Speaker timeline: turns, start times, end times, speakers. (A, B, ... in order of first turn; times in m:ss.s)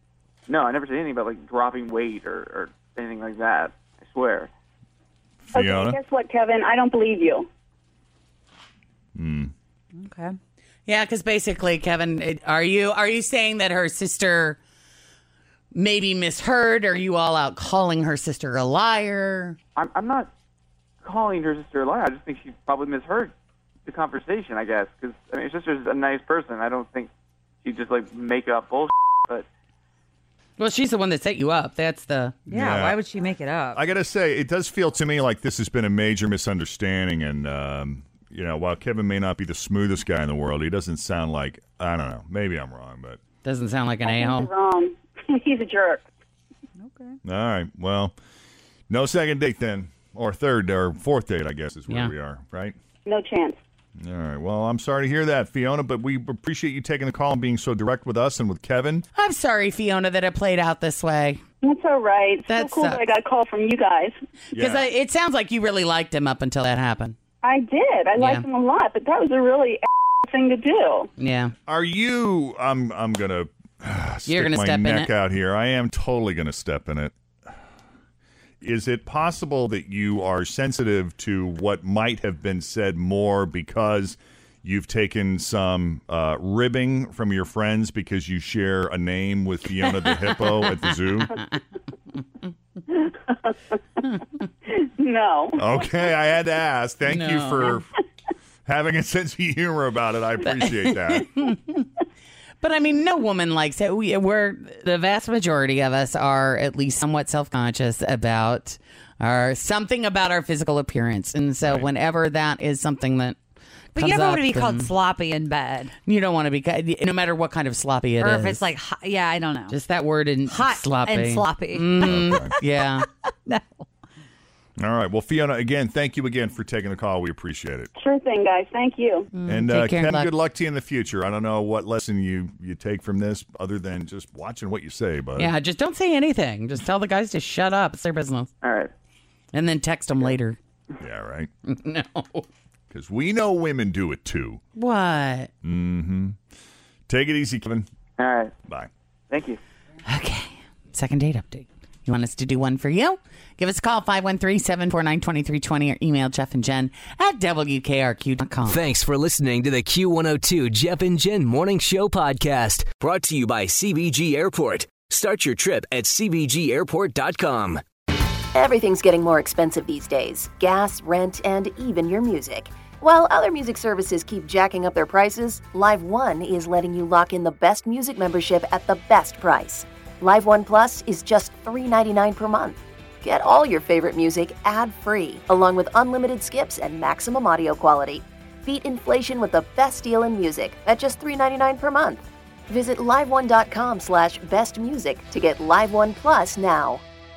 0:00.5-0:04.5 A
0:05.4-0:06.0 B
0:05.5-0:07.5 C
0:09.2-0:09.5 B
0:10.0-0:10.4 D
0:10.9-0:14.6 E
0:15.7-0:19.6 E
0:19.8-0:20.3 A
0:21.0-0:23.3 A
0:23.9-0:27.1 A
0:27.6-0:29.5 A
0:30.6-0:32.4 E
0:32.5-0:33.0 B
0:32.5-0:33.8 D
0:33.7-0:43.2 B
0:43.4-0:44.5 E
0:44.0-0:46.0 C
0:46.8-0:47.2 D
0:47.2-0:48.2 B
0:48.9-0:52.8 B
0:53.1-0:53.6 C
0:54.0-0:59.1 B
0:59.2-1:01.4 E
1:01.6-1:04.2 C
1:02.5-1:03.0 E
1:04.5-1:04.9 B
1:04.6-1:07.2 E
1:07.4-1:11.1 C
1:08.2-1:08.5 E
1:11.2-1:11.5 E
1:11.7-1:17.1 B
1:14.3-1:15.1 E
1:18.6-1:31.4 B
1:33.0-1:33.5 C
1:34.7-1:35.6 C
1:35.6-1:37.9 B
1:37.1-1:37.8 E
1:38.7-1:41.3 B
1:40.5-1:41.9 E
1:42.6-1:53.4 E
1:54.0-1:54.9 E
1:54.0-1:55.9 D
1:56.0-1:58.7 E
1:58.2-1:59.8 D
1:59.7-2:03.1 E
2:00.5-2:02.5 D
2:02.0-2:02.5 B
2:03.0-2:03.9 D
2:04.8-2:07.9 B
2:08.0-2:09.3 C
2:09.4-2:10.3 E
2:09.5-2:15.5 B
2:15.4-2:18.5 E
2:18.6-2:18.9 A
2:19.5-2:20.6 E
2:21.0-2:21.5 B
2:21.7-2:22.4 E
2:22.9-2:24.6 B
2:24.8-2:25.5 E
2:25.6-2:26.4 B
2:27.1-2:27.9 B
2:28.2-2:28.5 A
2:29.3-2:29.6 A
2:30.1-2:38.8 E
2:38.7-2:47.8 F
2:48.6-3:17.0 G